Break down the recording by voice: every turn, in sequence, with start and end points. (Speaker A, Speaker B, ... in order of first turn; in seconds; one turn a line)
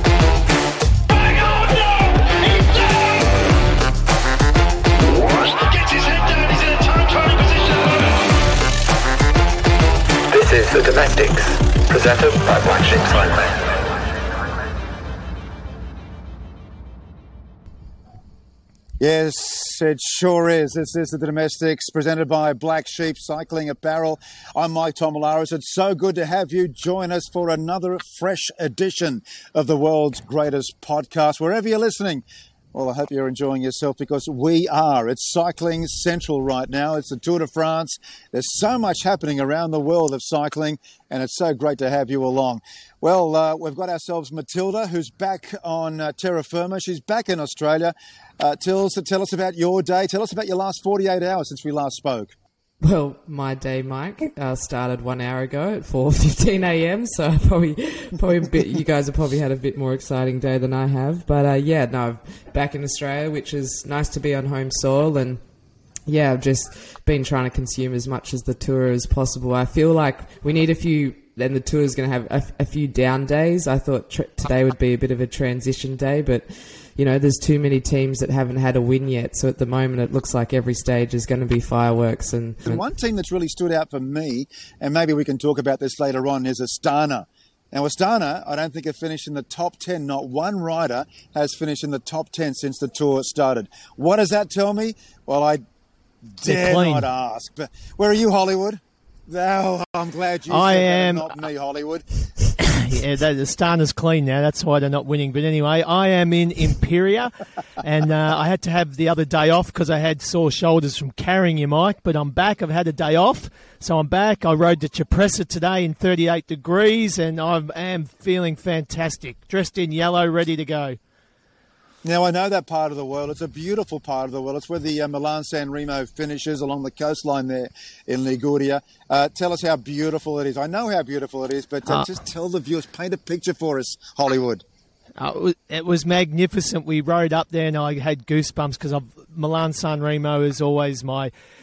Speaker A: 1.1-3.4
Speaker A: 5.0-8.2
Speaker B: 10.3-13.7
Speaker C: 10.4-10.9
Speaker C: 12.0-12.4
Speaker D: 19.0-32.2
Speaker D: 32.7-52.3
Speaker C: 52.8-65.4
Speaker C: 66.1-82.8
Speaker D: 82.7-95.6
Speaker D: 96.3-102.0
Speaker E: 96.5-97.1
Speaker E: 100.5-101.3
Speaker E: 102.7-121.0
Speaker D: 122.0-134.6
Speaker E: 135.2-141.3